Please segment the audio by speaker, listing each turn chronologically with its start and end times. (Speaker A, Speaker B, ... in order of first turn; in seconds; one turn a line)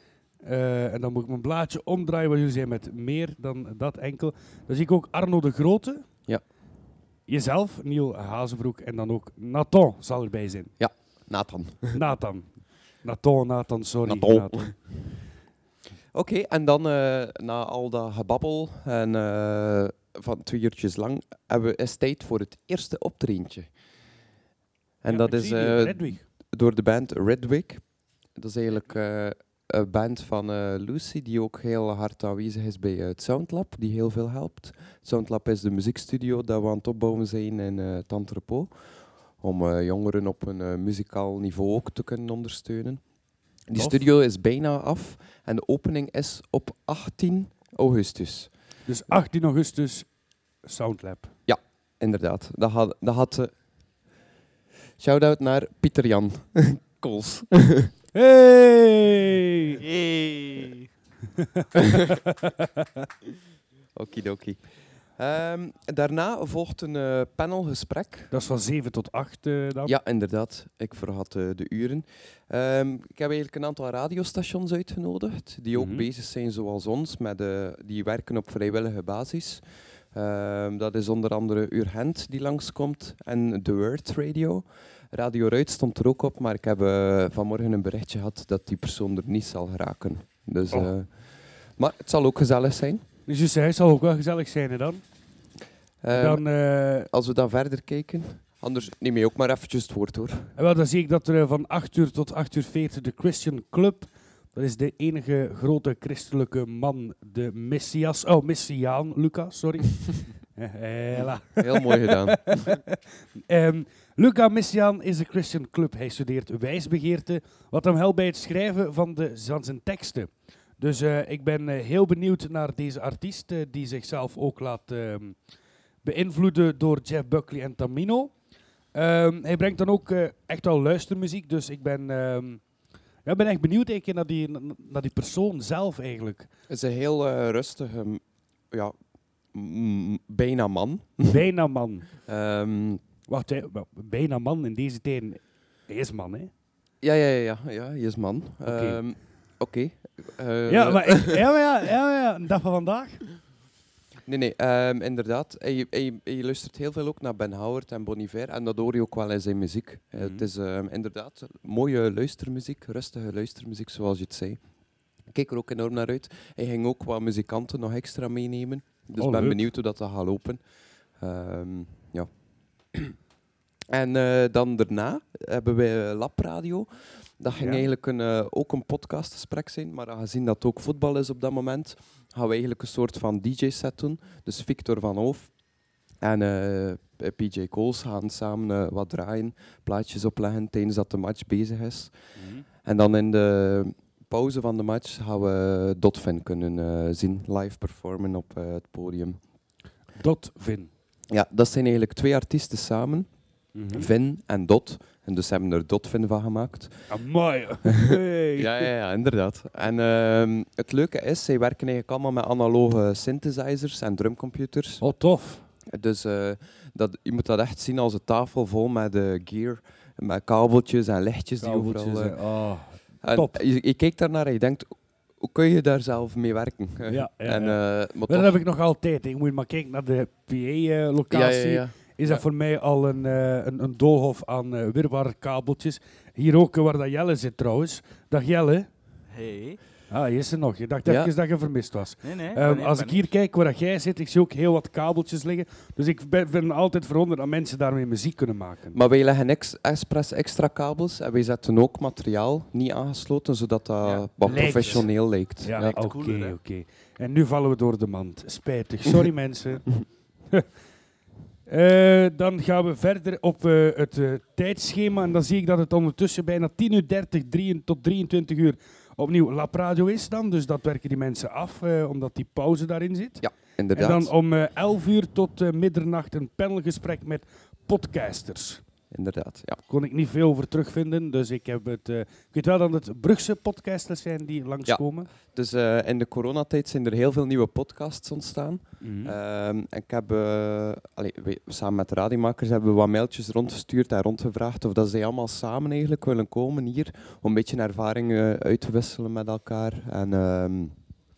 Speaker A: 0.4-6.0
Speaker A: 7.3-10.7
Speaker B: 10.8-12.0
Speaker A: 11.9-14.8
Speaker B: 14.1-15.0
Speaker B: 16.1-23.7
Speaker B: 25.0-38.8
Speaker A: 25.1-26.2
Speaker B: 39.4-43.0
Speaker B: 43.7-48.5
Speaker A: 43.8-44.0
Speaker A: 48.9-50.1
Speaker A: 50.6-51.4
Speaker B: 51.5-53.5
Speaker B: 55.0-57.9
Speaker A: 58.1-59.8
Speaker C: 59.8-60.9
Speaker A: 61.4-62.9
Speaker B: 64.0-68.3
Speaker A: 68.3-70.0
Speaker B: 69.9-93.0
Speaker A: 75.7-76.1
Speaker A: 93.3-95.0
Speaker B: 96.0-96.5
Speaker A: 96.1-97.1
Speaker B: 97.1-100.5
Speaker A: 100.6-113.0
Speaker B: 111.6-112.8
Speaker A: 113.5-125.4
Speaker A: 126.0-128.3
Speaker A: 128.9-132.6
Speaker A: 133.2-136.5
Speaker B: 136.7-138.9
Speaker B: 139.5-141.4
Speaker A: 141.3-142.1
Speaker B: 142.2-143.0
Speaker A: 143.3-146.5
Speaker B: 147.0-151.4
Speaker A: 148.7-149.0
Speaker A: 150.7-153.3
Speaker B: 154.3-164.6
Speaker A: 160.2-160.5
Speaker B: 165.3-170.6
Speaker A: 169.2-169.6
Speaker B: 171.2-172.3
Speaker B: 173.9-185.5
Speaker A: 177.5-177.8
Speaker B: 186.2-192.1
Speaker A: 192.4-192.7
Speaker B: 192.8-199.4
Speaker A: 200.2-200.9
Speaker B: 201.3-203.3
Speaker A: 203.8-204.1
Speaker B: 203.9-207.1
Speaker A: 207.1-208.9
Speaker B: 207.9-215.0
Speaker A: 215.0-215.7
Speaker B: 215.9-222.4
Speaker A: 221.6-223.6
Speaker B: 223.2-228.6
Speaker A: 227.1-238.9
Speaker B: 231.3-232.0
Speaker C: 239.3-239.8
Speaker A: 240.1-249.0
Speaker B: 241.1-241.3
Speaker C: 242.2-243.3
Speaker B: 248.9-255.9
Speaker C: 254.0-255.0
Speaker A: 254.4-260.0
Speaker C: 255.8-256.6
Speaker A: 261.7-278.8
Speaker B: 273.4-274.3
Speaker B: 279.1-279.8
Speaker A: 279.9-285.3
Speaker B: 284.9-301.0
Speaker A: 289.0-289.4